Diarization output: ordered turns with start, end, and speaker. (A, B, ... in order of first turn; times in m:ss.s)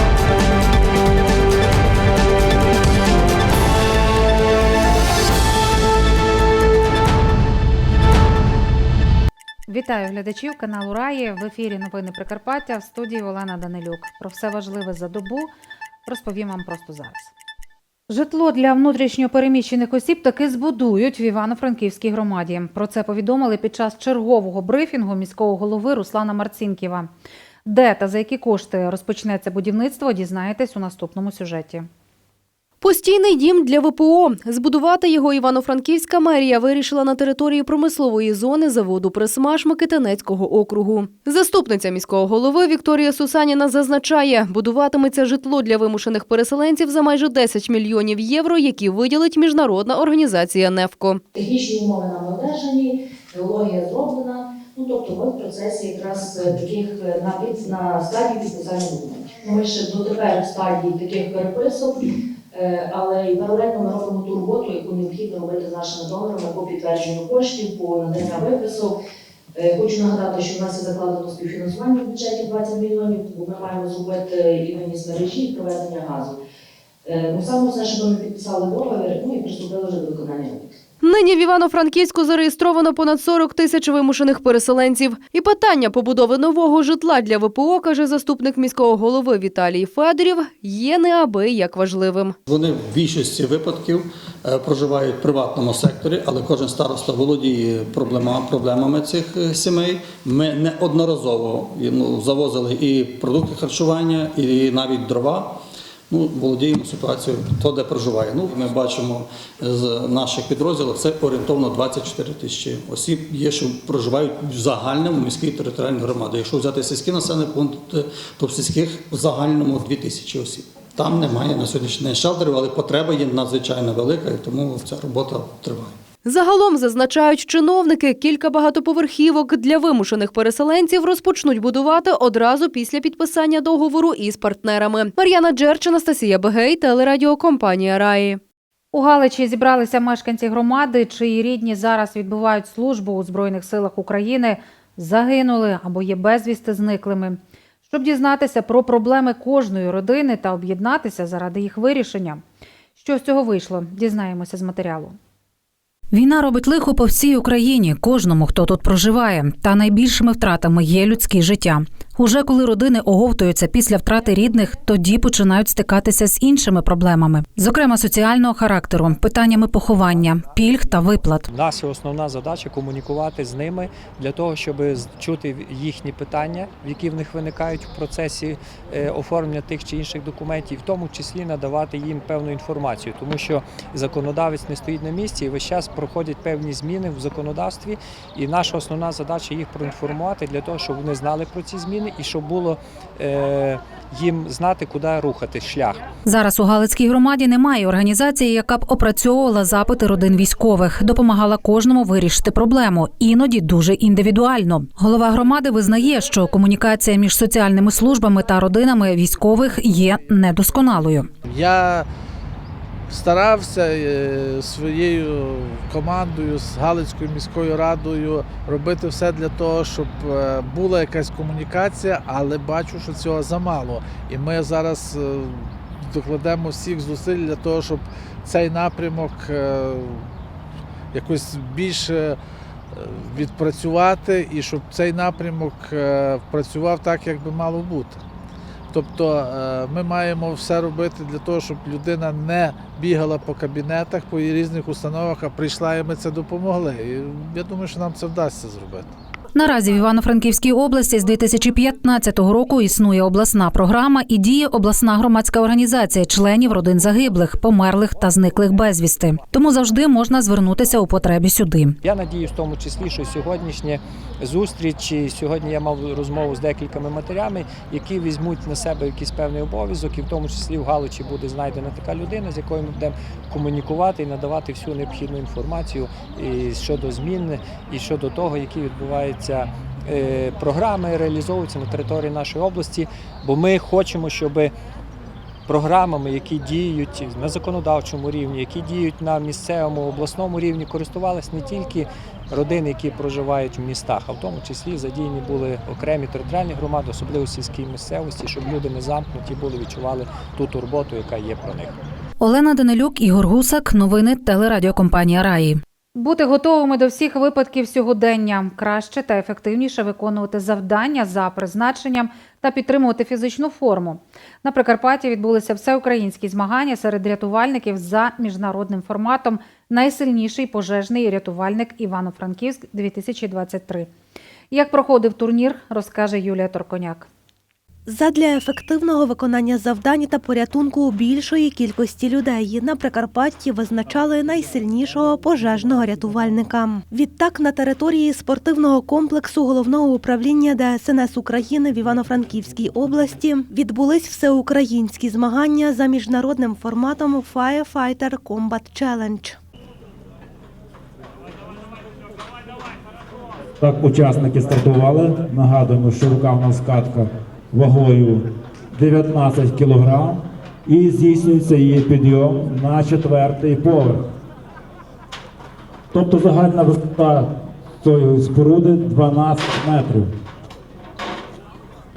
0:09.7-0:15.5 A
0:16.1-0:17.3 A
0:18.1-0:27.1 A
0:27.7-0:31.9 A
0:32.8-0:51.2 B
0:51.3-1:09.0 C
1:09.6-1:16.4 C
1:17.0-1:20.8 C
1:21.0-1:32.4 B
1:32.5-2:06.0 D
2:06.2-2:18.4 B
2:18.9-2:32.4 A
2:33.0-2:35.2 A
2:36.1-2:51.5 A
2:51.5-3:16.0 E
3:16.2-3:31.3 A
3:31.4-3:32.1 F
3:33.1-3:50.3 F
3:51.1-3:52.4 F
3:52.9-3:58.2 F
3:58.9-4:09.1 F
4:09.6-4:22.0 A
4:22.0-4:44.7 E
4:45.7-5:02.0 E
5:02.4-5:24.1 A
5:24.7-5:27.3 A
5:28.1-5:49.6 G
5:53.8-6:04.2 H
6:06.1-6:10.3 H